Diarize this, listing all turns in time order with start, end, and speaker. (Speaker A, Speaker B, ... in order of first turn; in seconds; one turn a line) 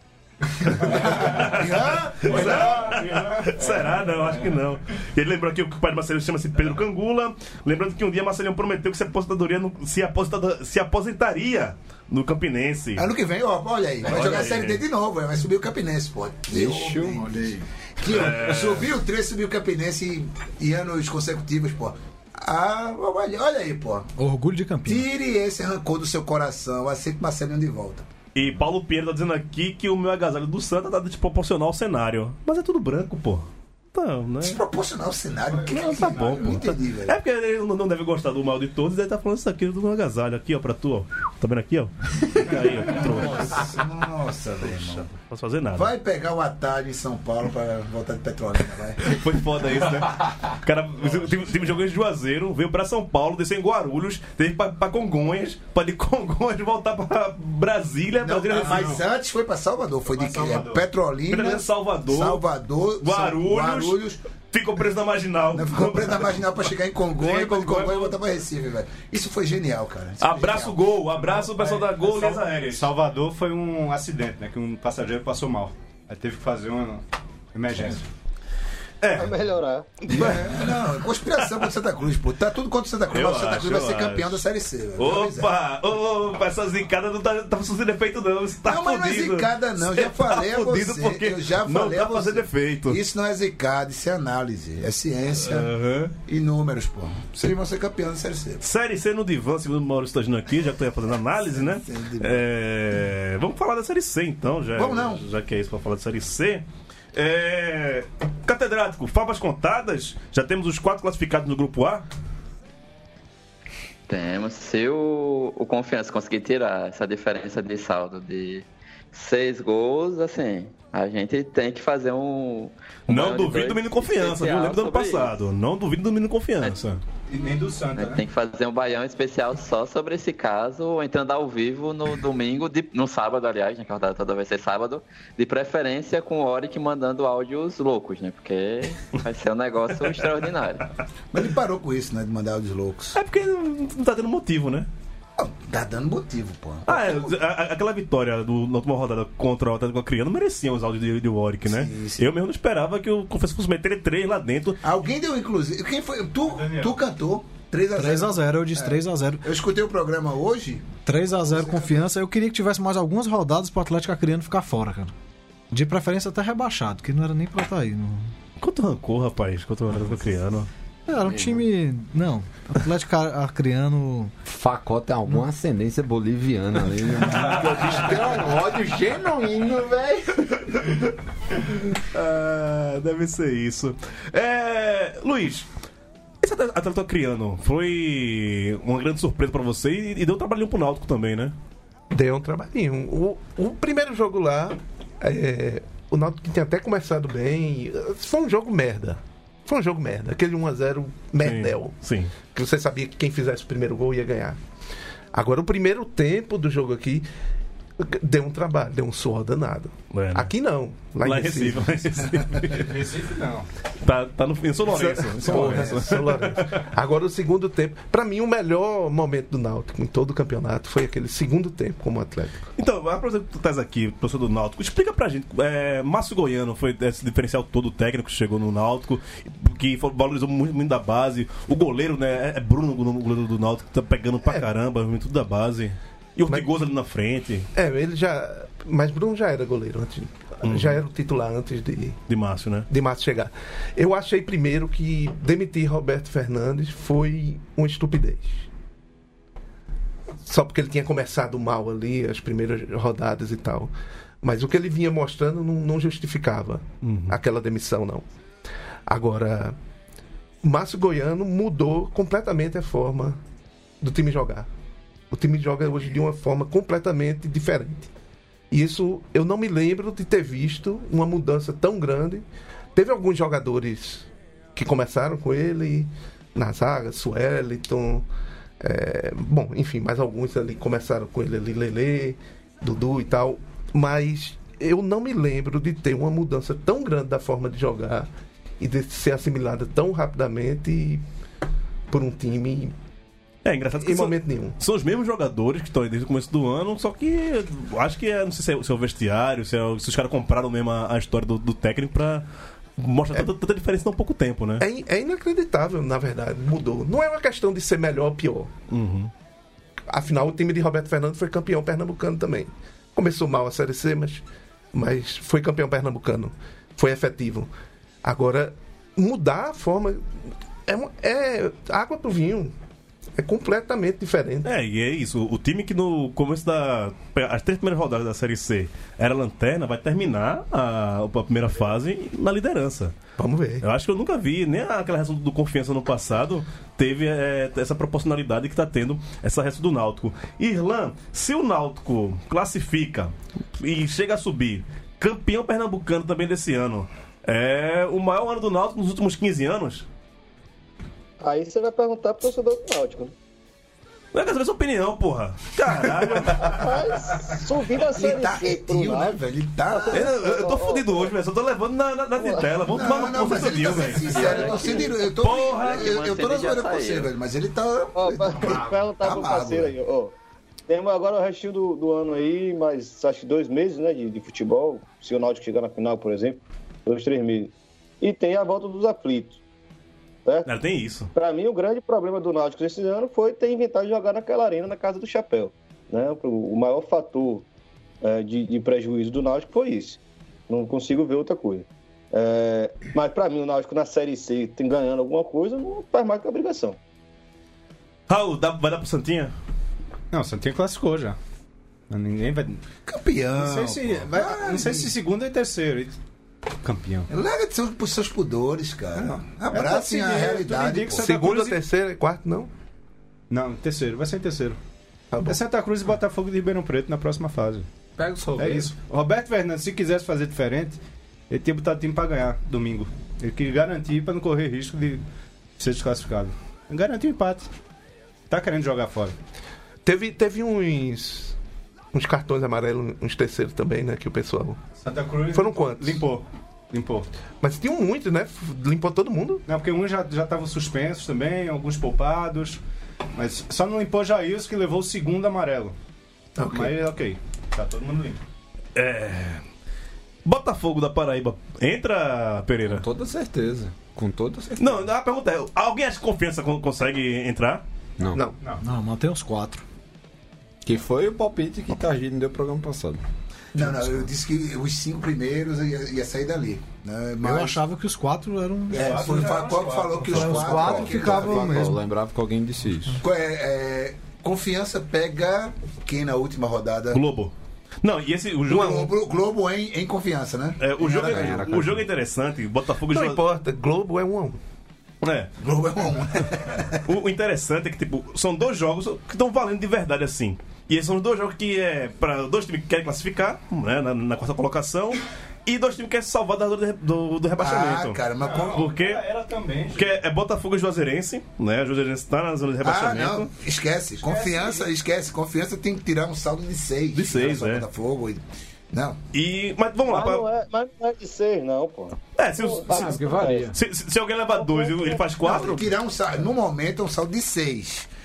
Speaker A: 0.7-13.1
Speaker B: 0.8-3.0
Speaker C: 2.8-3.6
Speaker B: 13.0-24.1
Speaker A: 14.0-14.8
Speaker D: 16.5-17.6
Speaker A: 18.0-18.9
Speaker E: 24.2-25.1
Speaker B: 24.9-28.1
Speaker A: 28.3-34.6
Speaker B: 34.4-37.1
Speaker C: 35.5-36.2
Speaker A: 35.7-43.7
Speaker B: 42.9-45.1
Speaker A: 44.7-45.9
Speaker B: 45.7-49.1
Speaker A: 49.0-59.0
Speaker B: 58.2-64.2
Speaker C: 58.6-59.0
Speaker C: 60.1-60.8
Speaker A: 61.3-62.4
Speaker A: 63.0-64.0
Speaker A: 64.5-66.4
Speaker B: 65.5-71.0
Speaker A: 67.2-68.2
Speaker A: 70.2-72.9
Speaker C: 71.4-78.1
Speaker A: 79.0-79.3
Speaker F: 79.1-80.0
Speaker A: 80.1-80.8
Speaker B: 80.1-85.5
Speaker A: 83.1-84.4
Speaker A: 85.0-93.0
Speaker B: 88.6-95.7
Speaker A: 95.4-96.1
Speaker B: 96.2-98.6
Speaker A: 98.6-112.0
Speaker B: 101.5-102.4
Speaker B: 104.7-105.2
Speaker G: 114.1-125.3
Speaker A: 123.1-127.0
Speaker C: 127.3-128.2
Speaker G: 127.9-140.8
Speaker B: 141.3-143.2
Speaker A: 143.1-144.9
Speaker B: 145.4-147.3
Speaker A: 146.9-154.8
Speaker B: 151.7-152.3
Speaker B: 154.8-162.1
Speaker C: 156.4-157.0
Speaker E: 157.9-159.4
Speaker E: 161.1-165.1
Speaker E: 165.7-168.3
Speaker A: 168.6-170.7
Speaker E: 171.1-174.3
Speaker D: 171.2-171.6
Speaker D: 174.4-180.6
Speaker A: 181.9-185.7
Speaker A: 186.4-191.5
Speaker H: 192.1-204.6
Speaker A: 201.4-202.3
Speaker H: 205.3-207.2
Speaker H: 208.0-211.9
Speaker A: 210.1-210.5
Speaker A: 211.2-212.9
Speaker C: 212.7-213.7
Speaker A: 214.0-216.8
Speaker H: 214.8-222.7
Speaker C: 215.4-215.8
Speaker A: 222.8-237.7
Speaker H: 237.7-242.2
Speaker A: 240.6-241.0
Speaker A: 242.3-242.9
Speaker H: 242.9-248.7
Speaker H: 250.4-258.2
Speaker A: 257.0-257.4
Speaker H: 259.1-259.8
Speaker H: 260.6-263.4
Speaker H: 264.0-264.7
Speaker H: 265.3-268.1
Speaker H: 268.7-278.2
Speaker H: 278.8-288.3
Speaker H: 288.8-291.2
Speaker H: 292.1-292.9
Speaker A: 293.6-302.4
Speaker H: 294.0-294.7
Speaker A: 303.0-304.8
Speaker H: 304.8-308.7
Speaker A: 308.9-309.3
Speaker H: 310.1-314.4
Speaker H: 314.9-317.7
Speaker H: 318.2-320.2
Speaker H: 320.9-322.7
Speaker H: 323.4-324.7
Speaker A: 324.6-333.1
Speaker H: 333.4-333.8
Speaker A: 333.8-350.1
Speaker F: 351.4-353.3
Speaker A: 354.3-356.9
Speaker F: 356.6-359.4
Speaker B: 358.1-360.3
Speaker F: 359.9-361.3
Speaker A: 360.1-366.2
Speaker F: 362.4-362.7
Speaker B: 362.9-369.9
Speaker G: 364.4-365.1
Speaker G: 365.6-367.3
Speaker F: 368.1-370.3
Speaker F: 370.9-379.6
Speaker A: 380.6-381.3
Speaker F: 381.3-387.6
Speaker F: 388.2-397.0
Speaker A: 398.3-399.5
Speaker C: 400.3-401.4
Speaker C: 402.1-402.8
Speaker B: 403.1-405.1
Speaker C: 403.5-406.1
Speaker C: 406.8-407.3
Speaker B: 407.3-411.2
Speaker C: 409.2-411.8
Speaker H: 411.2-412.7
Speaker C: 413.5-414.8
Speaker H: 415.3-415.6
Speaker C: 415.4-417.9
Speaker D: 418.2-418.9
Speaker C: 418.6-421.0
Speaker C: 421.5-425.2
Speaker C: 425.8-427.7
Speaker C: 428.5-429.4
Speaker H: 430.0-431.6
Speaker H: 432.1-434.8
Speaker C: 435.0-437.3
Speaker H: 435.5-436.2
Speaker H: 437.6-439.6
Speaker C: 439.7-442.8
Speaker C: 443.4-445.9
Speaker H: 446.6-447.0
Speaker C: 446.7-448.4
Speaker A: 448.9-449.6
Speaker A: 450.4-453.0
Speaker D: 452.9-455.1
Speaker A: 454.8-457.8
Speaker D: 458.2-458.5
Speaker E: 458.8-459.8
Speaker D: 460.8-463.2
Speaker B: 463.7-467.8
Speaker E: 467.4-469.4
Speaker B: 468.9-471.9
Speaker C: 468.9-471.1
Speaker E: 470.2-472.0
Speaker D: 470.8-473.2
Speaker B: 473.2-477.2
Speaker A: 477.1-479.1
Speaker B: 478.7-481.8
Speaker A: 480.8-483.4
Speaker D: 481.1-482.1
Speaker H: 483.1-484.6
Speaker A: 485.2-485.5
Speaker B: 485.6-487.0
Speaker A: 487.0-498.2
Speaker B: 497.6-498.9
Speaker C: 498.4-500.1
Speaker A: 498.7-499.2
Speaker A: 499.9-503.5
Speaker B: 502.8-509.2
Speaker C: 504.2-504.9
Speaker A: 507.1-507.9
Speaker A: 509.3-510.4
Speaker F: 510.1-513.7
Speaker A: 512.4-515.9
Speaker D: 512.9-513.7
Speaker F: 514.5-515.3
Speaker B: 515.4-518.1